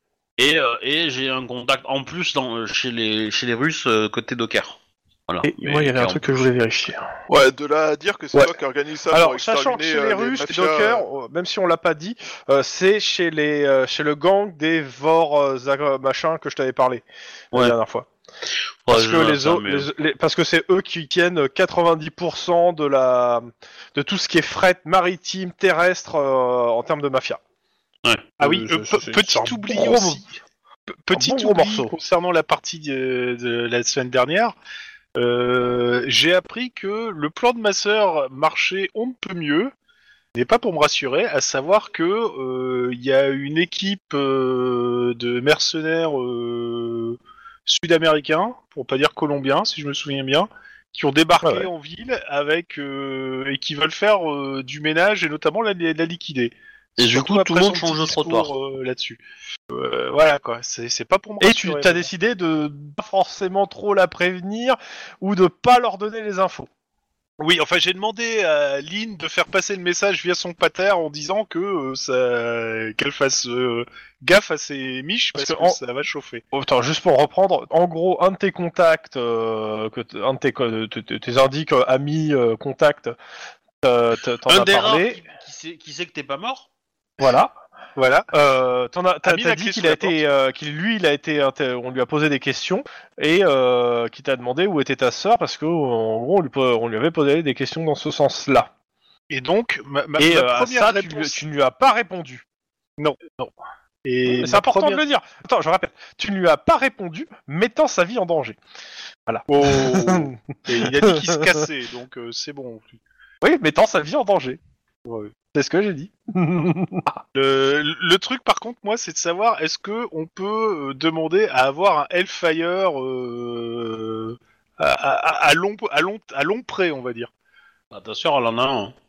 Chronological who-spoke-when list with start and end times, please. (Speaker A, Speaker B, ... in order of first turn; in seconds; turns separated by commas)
Speaker A: 0.4-6.4, Speaker B: 5.4-7.1, Speaker C: 7.3-11.0, Speaker B: 9.1-18.1, Speaker A: 18.8-19.9, Speaker B: 18.9-27.4, Speaker A: 28.0-28.3, Speaker D: 28.4-30.3, Speaker B: 28.4-30.2, Speaker D: 31.1-34.5, Speaker B: 31.1-31.9, Speaker D: 35.1-39.7, Speaker D: 40.3-62.1, Speaker B: 51.4-51.7, Speaker A: 57.0-58.5, Speaker B: 61.4-66.7, Speaker D: 67.4-76.4, Speaker B: 75.3-75.8, Speaker B: 76.5-83.2, Speaker B: 83.8-85.2, Speaker A: 84.5-86.7, Speaker B: 87.2-87.6, Speaker D: 88.0-88.3, Speaker B: 88.3-98.7, Speaker D: 89.2-90.2, Speaker D: 99.3-101.4, Speaker B: 100.2-102.4, Speaker D: 103.0-103.5, Speaker D: 104.0-105.0, Speaker B: 104.3-108.6, Speaker B: 109.3-111.5, Speaker D: 109.5-113.0, Speaker B: 113.4-114.6, Speaker D: 115.0-115.3, Speaker B: 115.5-117.2, Speaker D: 117.3-127.3, Speaker A: 127.9-128.9